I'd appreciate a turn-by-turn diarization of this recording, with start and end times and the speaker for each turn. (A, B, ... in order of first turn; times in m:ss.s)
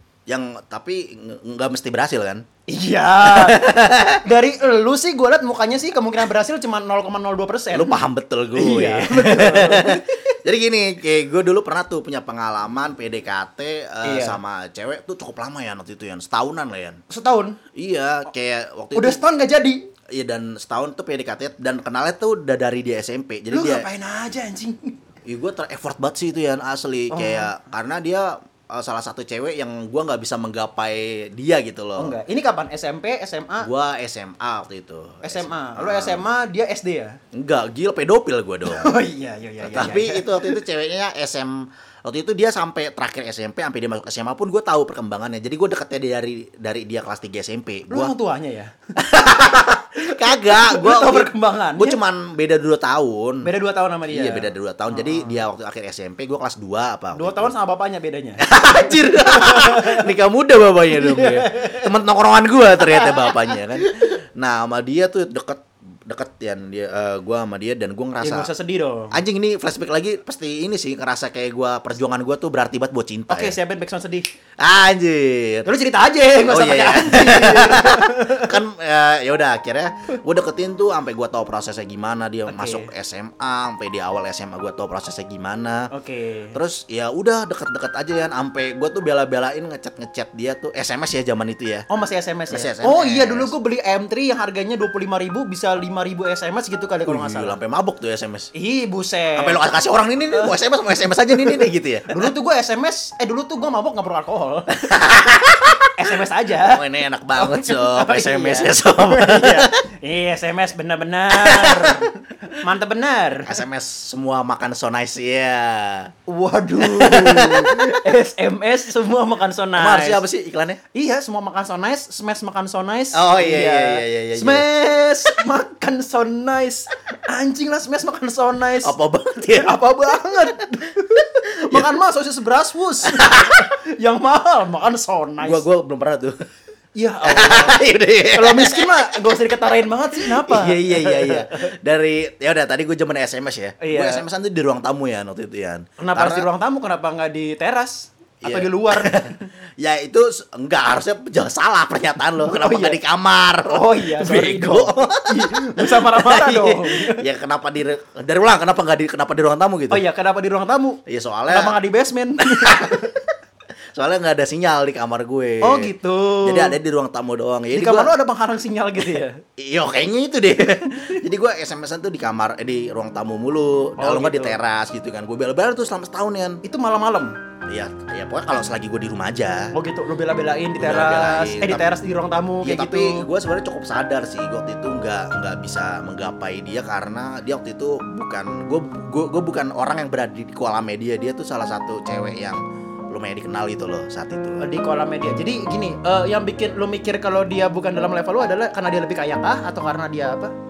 0:00.3-0:02.4 A
0:02.7-0:08.0 B
0:03.2-0:04.2 A
0:07.7-0:17.0 A
0:08.5-0:10.2 B
0:14.0-0:14.4 B
0:17.1-0:17.6 B
0:17.7-0:19.2 A
0:18.9-0:19.8 B
0:20.1-0:23.8 A
0:23.5-0:25.0 B
0:25.2-0:32.2 A
0:27.1-0:27.5 B
0:32.0-0:33.7 B
0:33.6-0:36.2 A
0:35.2-0:37.2 B
0:37.3-0:38.9 A
0:38.7-0:40.6 B
0:39.6-0:48.1 A
0:47.9-0:48.7 B
0:49.0-0:53.5 A
0:50.0-0:52.0 B
0:53.4-0:55.4 B
0:54.1-0:57.5 A
0:57.1-1:00.1 B
0:58.4-1:08.5 A
1:00.9-1:01.9 B
1:08.2-1:09.2 B
1:09.1-1:13.6 A
1:13.3-1:14.2 B
1:14.6-1:15.7 A
1:15.6-1:18.5 B
1:16.5-1:25.9 A
1:22.5-1:22.9 B
1:25.9-1:26.6 B
1:26.5-1:31.8 A
1:31.9-1:37.5 B
1:32.5-1:33.5 A
1:37.1-1:38.5 A
1:38.5-1:39.6 B
1:39.4-1:42.3 A
1:42.1-1:44.9 B
1:44.8-1:45.9 A
1:45.9-1:46.8 B
1:46.6-1:49.7 A
1:47.4-1:53.6 B
1:51.3-1:52.0 A
1:53.4-1:56.1 A
1:56.3-2:00.2 B
1:56.8-1:58.1 A
1:59.8-2:00.8 A
2:00.9-2:08.9 B
2:03.1-2:04.6 A
2:08.8-2:09.8 A
2:09.5-2:15.6 B
2:11.6-2:11.9 A
2:13.0-2:13.7 A
2:15.4-2:16.4 A
2:17.0-2:17.8 B
2:17.2-2:19.1 A
2:18.3-2:21.7 B
2:20.2-2:26.5 A
2:23.8-2:24.2 B
2:26.0-2:29.4 B
2:28.4-2:40.0 A
2:32.4-2:33.0 B
2:33.7-2:37.2 B
2:39.9-2:43.2 B
2:41.0-2:41.8 A
2:42.4-2:43.2 A
2:43.9-2:48.1 A
2:45.6-2:46.8 B
2:47.7-2:49.4 B
2:49.6-2:56.6 A
2:54.0-2:54.6 B
2:56.6-2:57.3 B
2:57.7-2:59.7 A
2:59.7-3:03.3 B
3:00.7-3:01.9 A
3:02.6-3:14.6 A
3:14.6-3:20.5 B